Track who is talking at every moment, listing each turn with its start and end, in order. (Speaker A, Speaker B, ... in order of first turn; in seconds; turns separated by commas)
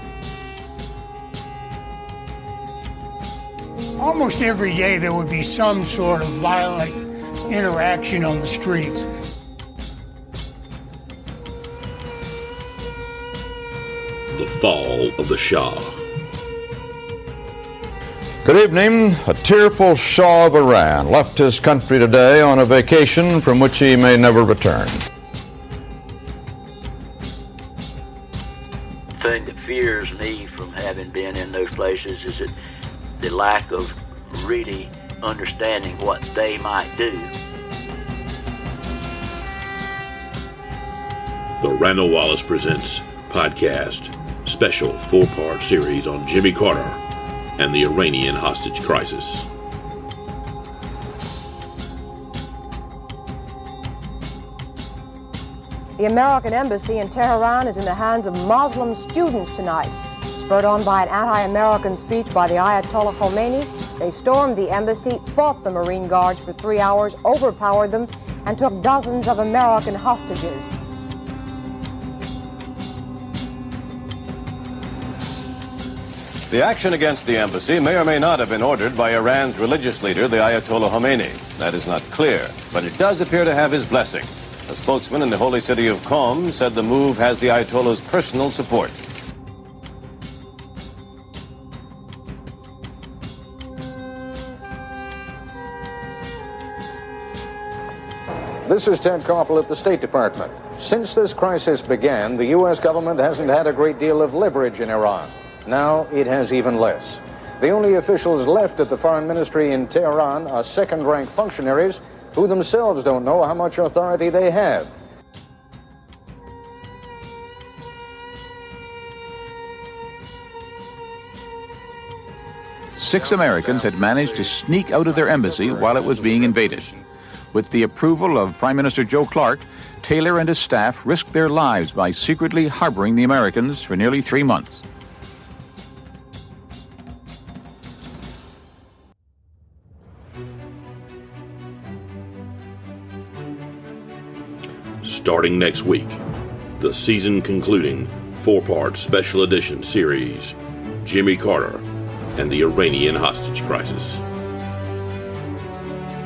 Speaker A: 4.0-9.1, Speaker B: 14.3-15.9, Speaker C: 18.4-25.0, Speaker D: 29.2-32.5, Speaker D: 33.2-37.3, Speaker B: 41.6-47.0, Speaker B: 47.6-49.5, Speaker E: 56.0-70.7, Speaker F: 76.5-88.9, Speaker G: 98.7-114.9, Speaker H: 123.0-126.9, Speaker G: 123.1-124.8, Speaker G: 125.6-126.9, Speaker H: 127.5-134.8, Speaker B: 145.0-146.2, Speaker B: 146.8-151.8, Speaker B: 152.4-154.2